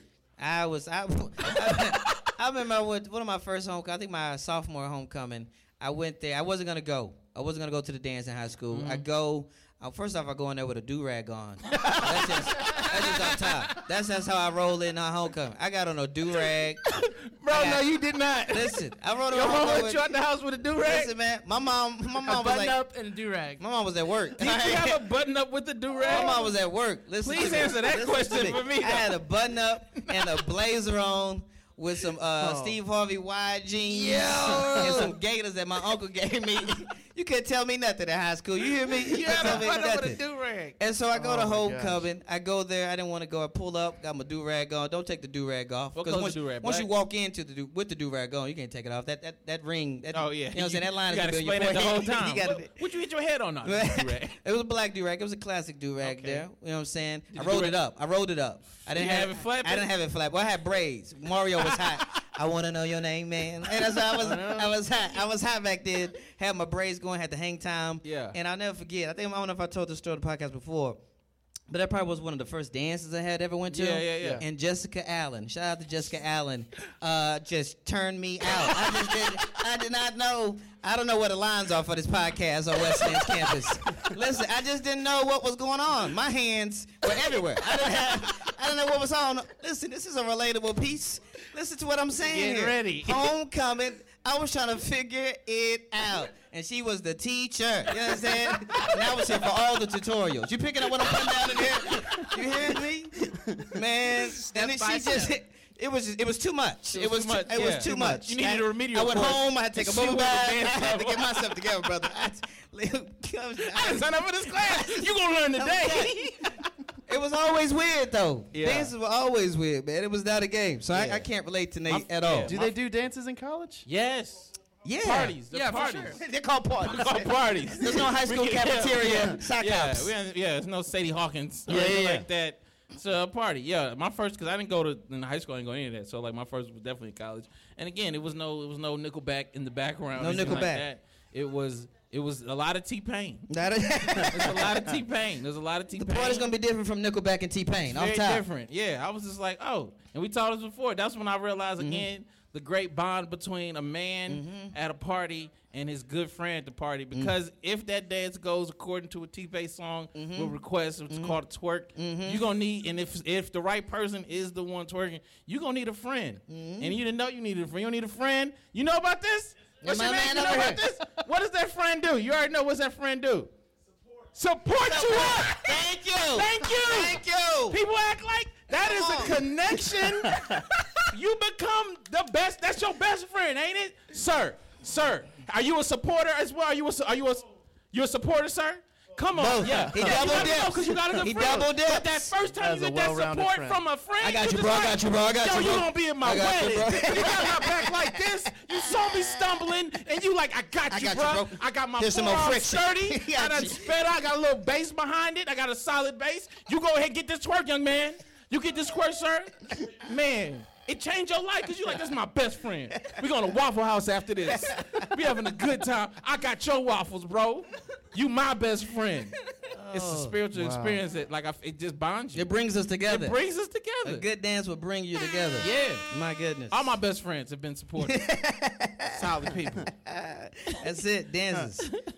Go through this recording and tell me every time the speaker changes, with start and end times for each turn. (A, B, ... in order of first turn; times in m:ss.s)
0:00.4-0:16.8 A
0:08.7-0:09.1 B
0:11.7-0:13.5 B
0:17.0-0:21.1 B
0:17.5-0:17.9 A
0:18.5-0:20.1 A
0:20.8-0:22.8 A
0:22.2-0:23.6 C
0:23.6-0:25.0 A
0:24.4-0:26.5 B
0:26.0-0:40.2 A
0:27.2-0:29.2 B
0:30.0-0:30.4 B
0:32.4-0:32.8 D
0:33.9-0:35.1 B
0:34.4-0:35.1 D
0:38.9-0:40.8 B
0:39.3-0:39.6 D
0:40.8-0:52.9 A
0:41.1-0:42.1 D
0:46.0-0:46.9 B
0:50.1-0:54.4 B
0:53.6-1:11.0 A
0:56.0-0:56.5 B
0:57.3-0:57.8 B
0:58.9-0:59.9 B
1:01.6-1:02.2 B
1:03.7-1:04.8 B
1:08.0-1:08.4 B
1:11.7-1:56.2 A
1:13.7-1:14.4 B
1:32.2-1:33.3 B
1:38.2-1:39.2 B
1:41.0-1:42.3 B
1:44.3-1:45.4 C
1:46.9-1:51.5 B
1:47.6-1:48.2 D
1:53.7-1:56.6 B
1:57.1-2:02.5 A
1:58.5-1:58.9 B
2:00.9-2:01.3 B
2:01.9-2:02.8 B
2:02.5-2:03.9 D
2:03.8-2:06.2 B
2:04.8-2:10.1 A
2:05.5-2:06.2 C
2:06.8-2:23.5 B
2:11.7-2:12.2 D
2:11.7-2:12.2 A
2:20.2-2:20.9 A
2:23.5-2:24.7 A
2:24.3-2:26.5 B
2:25.9-2:28.4 A
2:27.9-2:53.5 B
2:31.8-2:32.1 A
2:34.3-2:34.7 A
2:40.1-2:40.6 A
2:41.1-2:41.4 A
2:42.0-2:42.4 A
2:46.5-2:47.0 A
2:49.8-2:50.8 A
2:54.3-3:39.3 B
2:54.8-2:57.8 A
2:58.7-2:59.4 A
3:00.2-3:00.6 D
3:09.3-3:12.3 A
3:09.6-3:11.6 D
3:12.5-3:13.8 D
3:14.2-3:19.6 A
3:20.9-3:24.0 A
3:34.5-3:35.0 A
3:39.7-3:40.4 A
3:39.9-3:42.5 B
3:40.5-3:41.0 D
3:42.3-3:43.4 A
3:43.1-3:44.2 B
3:44.0-3:46.9 A
3:45.6-3:46.0 B
3:46.7-3:48.2 B
3:48.0-3:49.3 A
3:49.1-3:49.9 B
3:49.9-3:51.9 A